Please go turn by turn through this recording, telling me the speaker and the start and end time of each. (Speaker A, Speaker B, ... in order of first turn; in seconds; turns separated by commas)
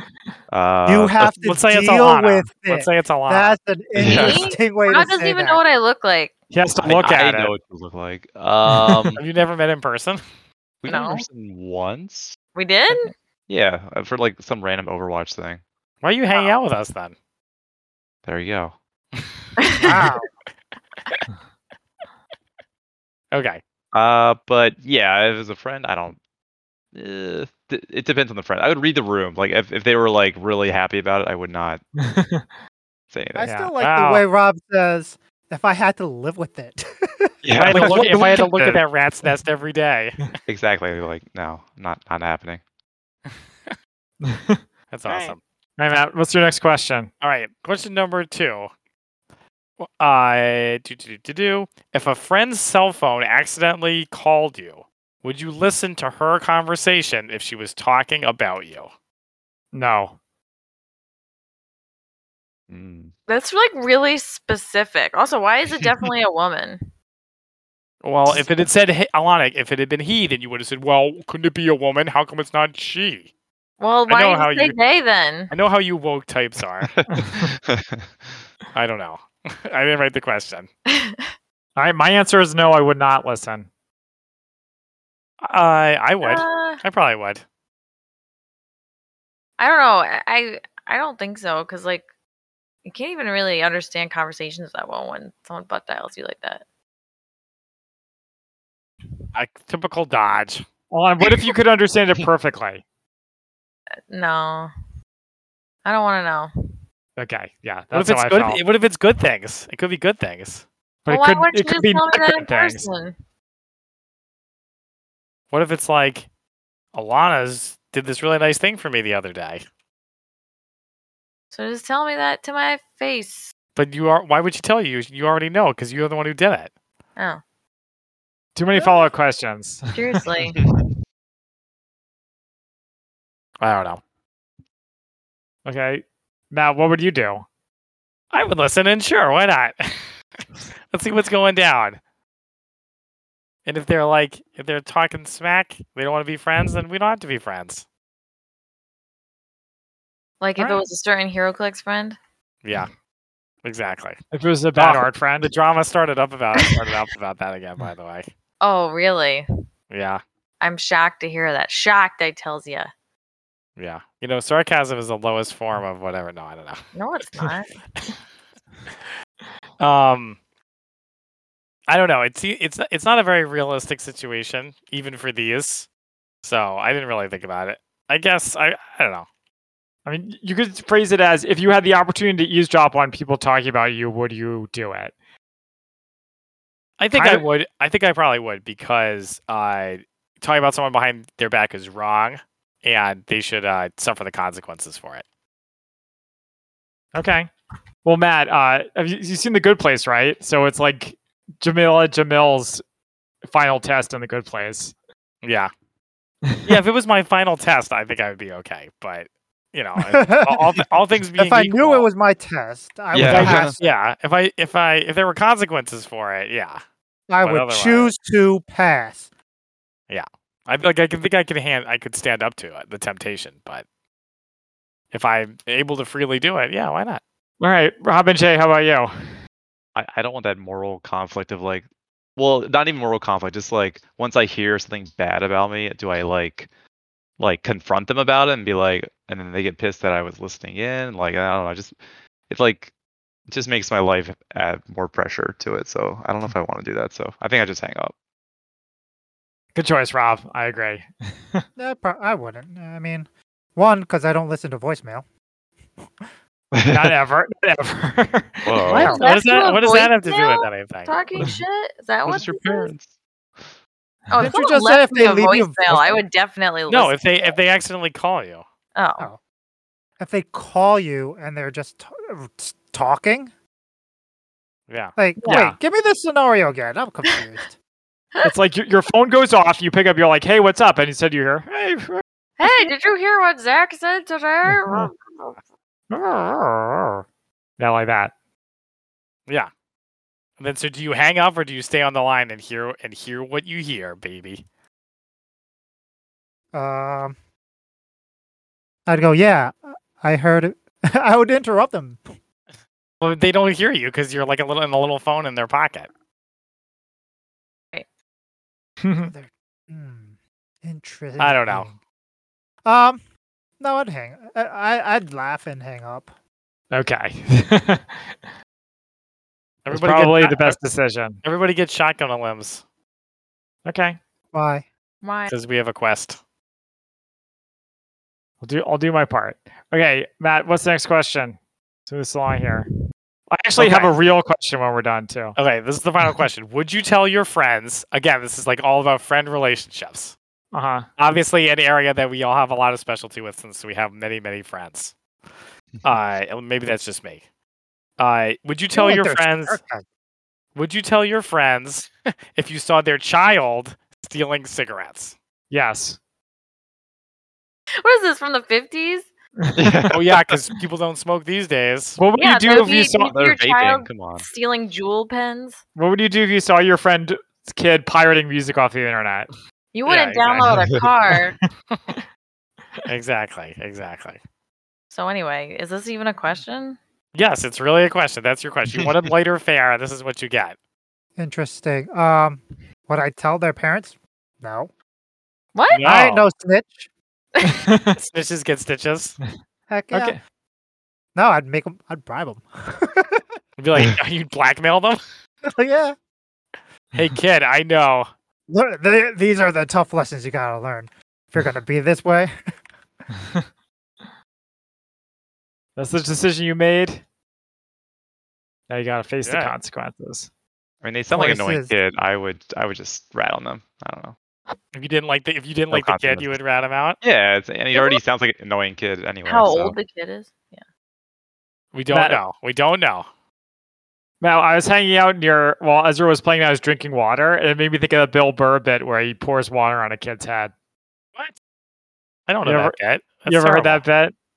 Speaker A: 0.5-1.3, Speaker B: 0.8-5.6, Speaker C: 1.3-3.6, Speaker A: 4.0-4.5, Speaker D: 4.0-6.3, Speaker E: 6.5-7.5, Speaker A: 6.8-9.2, Speaker E: 8.7-9.0, Speaker C: 9.2-10.2, Speaker A: 10.8-12.4, Speaker D: 10.9-11.2, Speaker D: 12.5-13.1, Speaker A: 13.5-15.6, Speaker C: 16.0-17.1, Speaker A: 18.2-18.7, Speaker C: 19.1-20.1, Speaker D: 19.6-20.1, Speaker B: 19.8-20.3, Speaker C: 23.3-23.6, Speaker A: 23.9-26.2, Speaker A: 26.9-31.8, Speaker E: 32.0-32.5, Speaker A: 33.1-33.5, Speaker B: 33.3-37.4, Speaker E: 33.4-33.7, Speaker C: 33.8-34.2, Speaker A: 37.4-38.0, Speaker C: 37.5-40.2, Speaker E: 37.6-39.3, Speaker A: 40.5-42.6, Speaker C: 43.3-43.7, Speaker E: 44.2-47.1, Speaker C: 44.9-45.4, Speaker C: 47.2-48.7, Speaker C: 49.8-58.9, Speaker E: 59.7-60.1, Speaker A: 62.7-63.1, Speaker D: 63.3-66.8, Speaker C: 68.0-73.3, Speaker D: 73.8-75.5, Speaker C: 74.1-74.8, Speaker C: 75.5-76.9, Speaker A: 76.8-78.0, Speaker E: 77.1-77.5, Speaker C: 78.7-80.7, Speaker D: 80.9-81.3, Speaker E: 81.8-83.7, Speaker C: 85.4-87.4, Speaker D: 86.2-86.8, Speaker D: 89.6-92.0, Speaker D: 92.8-96.6, Speaker C: 99.3-100.6, Speaker E: 100.9-102.8, Speaker D: 104.1-104.7, Speaker D: 105.8-106.5, Speaker E: 107.2-108.6, Speaker C: 107.9-110.6, Speaker E: 111.0-112.8, Speaker D: 111.1-113.1, Speaker C: 115.5-116.3, Speaker C: 116.9-119.6, Speaker D: 121.5-123.5, Speaker C: 123.8-126.7, Speaker E: 128.6-130.2, Speaker D: 129.9-130.6, Speaker A: 130.5-130.9, Speaker C: 133.6-134.0, Speaker E: 135.6-137.4, Speaker C: 138.3-140.1, Speaker C: 140.9-142.0, Speaker C: 143.7-147.8, Speaker D: 150.4-152.2, Speaker C: 152.6-152.9, Speaker C: 153.6-154.2, Speaker E: 154.3-155.5, Speaker C: 154.8-158.2, Speaker D: 158.6-159.4, Speaker C: 159.9-160.2, Speaker D: 160.6-162.9, Speaker C: 163.8-166.8, Speaker D: 166.9-167.7, Speaker C: 169.8-170.4, Speaker C: 171.9-175.9, Speaker C: 176.4-179.3, Speaker E: 180.1-185.1, Speaker C: 187.0-195.2, Speaker E: 187.1-187.4, Speaker E: 197.1-197.5, Speaker E: 198.0-202.8, Speaker E: 203.4-204.9, Speaker C: 205.4-205.7, Speaker E: 206.5-206.8, Speaker C: 206.6-212.1, Speaker B: 210.0-210.7, Speaker B: 211.4-213.8, Speaker A: 213.1-213.8, Speaker C: 213.2-216.8, Speaker B: 217.3-219.3, Speaker C: 217.4-218.1, Speaker C: 220.1-223.8, Speaker C: 225.1-227.2, Speaker E: 227.6-229.3, Speaker A: 229.9-236.7, Speaker A: 237.4-241.9, Speaker A: 242.5-242.9, Speaker A: 243.5-248.1, Speaker E: 249.7-251.6, Speaker B: 251.8-255.2, Speaker A: 256.7-257.1, Speaker E: 256.9-259.0, Speaker A: 258.6-259.1, Speaker C: 258.8-261.1, Speaker B: 258.9-259.2, Speaker D: 259.1-262.9, Speaker A: 262.2-263.1, Speaker D: 264.3-267.5, Speaker B: 264.4-266.2, Speaker C: 266.9-268.6, Speaker D: 268.9-269.3, Speaker B: 270.2-273.5, Speaker C: 274.9-275.1, Speaker B: 275.1-277.7, Speaker E: 275.4-275.8, Speaker E: 278.4-282.9, Speaker D: 282.6-285.5, Speaker E: 284.6-285.1, Speaker E: 286.1-287.2, Speaker E: 287.8-288.3, Speaker C: 290.6-294.6, Speaker B: 296.7-297.4, Speaker B: 299.1-302.2, Speaker C: 303.2-306.1, Speaker E: 309.0-309.3, Speaker B: 309.2-312.0, Speaker C: 311.4-311.9, Speaker B: 312.8-313.2, Speaker B: 313.8-316.3, Speaker E: 316.9-318.4, Speaker C: 319.9-320.8, Speaker E: 319.9-321.4, Speaker C: 321.4-322.8, Speaker E: 323.8-324.2, Speaker B: 324.5-324.8, Speaker D: 325.2-325.5, Speaker C: 325.5-326.4, Speaker E: 328.6-331.6, Speaker E: 332.1-332.9, Speaker E: 333.5-335.6, Speaker C: 333.8-334.1, Speaker C: 335.6-340.3, Speaker E: 340.7-341.1, Speaker C: 341.2-345.1, Speaker C: 346.0-347.4, Speaker C: 348.2-349.8, Speaker B: 348.9-350.0, Speaker C: 350.7-355.3, Speaker E: 355.7-356.2, Speaker D: 358.0-359.3, Speaker E: 359.6-360.1, Speaker A: 359.7-360.6, Speaker C: 360.1-362.2, Speaker E: 362.2-363.3, Speaker D: 362.4-365.8, Speaker A: 363.2-364.5, Speaker E: 365.9-369.5, Speaker D: 369.9-371.6, Speaker C: 370.1-370.6, Speaker A: 370.6-371.0, Speaker C: 371.9-372.1, Speaker C: 373.1-374.4, Speaker D: 375.1-377.0, Speaker C: 377.3-380.7, Speaker B: 381.4-384.9, Speaker D: 385.7-386.0, Speaker C: 385.9-386.5, Speaker B: 386.0-387.1, Speaker E: 387.6-388.1, Speaker C: 388.1-389.4, Speaker B: 389.9-390.4, Speaker E: 390.1-390.4, Speaker B: 391.3-393.4, Speaker C: 393.8-395.2, Speaker B: 395.8-396.1, Speaker C: 397.1-398.3, Speaker B: 398.7-402.5, Speaker E: 405.9-407.2, Speaker E: 408.9-410.5, Speaker C: 409.4-409.7, Speaker A: 411.0-414.3, Speaker B: 411.3-411.9, Speaker C: 414.9-417.2, Speaker A: 415.9-416.5, Speaker A: 417.2-419.9, Speaker D: 417.9-418.2, Speaker D: 419.4-420.8, Speaker C: 421.9-423.3, Speaker E: 422.1-422.4, Speaker E: 424.4-430.7, Speaker C: 432.5-434.0, Speaker E: 432.6-434.3